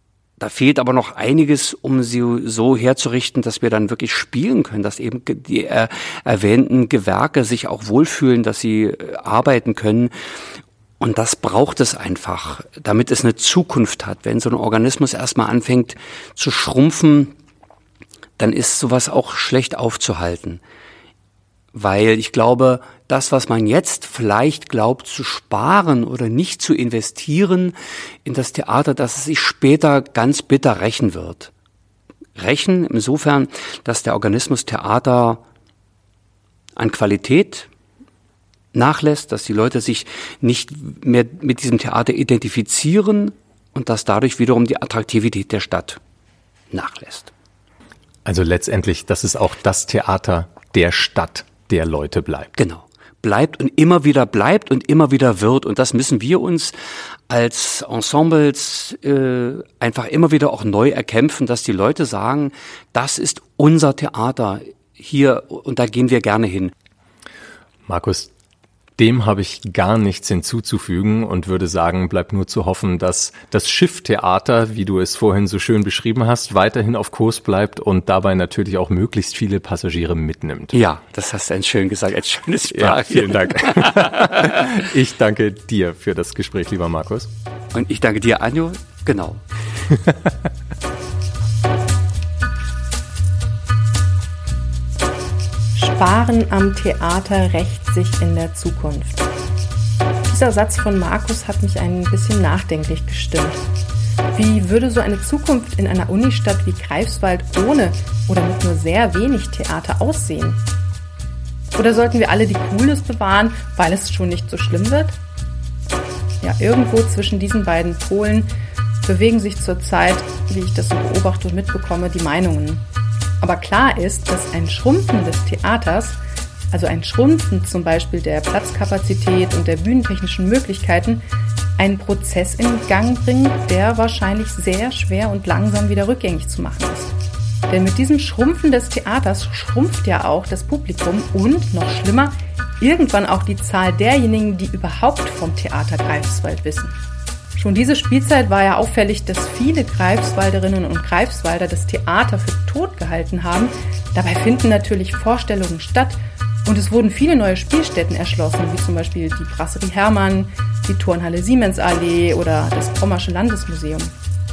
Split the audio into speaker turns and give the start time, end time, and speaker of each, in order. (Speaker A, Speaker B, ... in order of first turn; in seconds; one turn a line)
Speaker A: 0.4-10.1
Speaker A: 11.0-17.3
Speaker A: 18.4-20.6
Speaker A: 21.7-27.7
Speaker A: 28.2-31.5
Speaker A: 32.4-35.4
Speaker A: 36.8-37.7
Speaker A: 38.7-46.0
Speaker A: 46.7-47.3
Speaker B: 48.2-52.5
Speaker A: 52.6-56.8
Speaker A: 57.3-66.7
Speaker B: 67.9-68.3
Speaker B: 69.0-80.8
Speaker A: 80.7-84.8
Speaker B: 82.7-87.3
Speaker A: 87.7-89.4
Speaker C: 95.7-99.3
Speaker C: 100.3-103.6
Speaker C: 104.3-110.6
Speaker C: 111.8-115.2
Speaker C: 116.4-118.5
Speaker C: 119.0-122.8
Speaker C: 123.4-126.2
Speaker C: 126.7-131.2
Speaker C: 131.8-137.1
Speaker C: 137.7-147.0
Speaker C: 147.6-164.1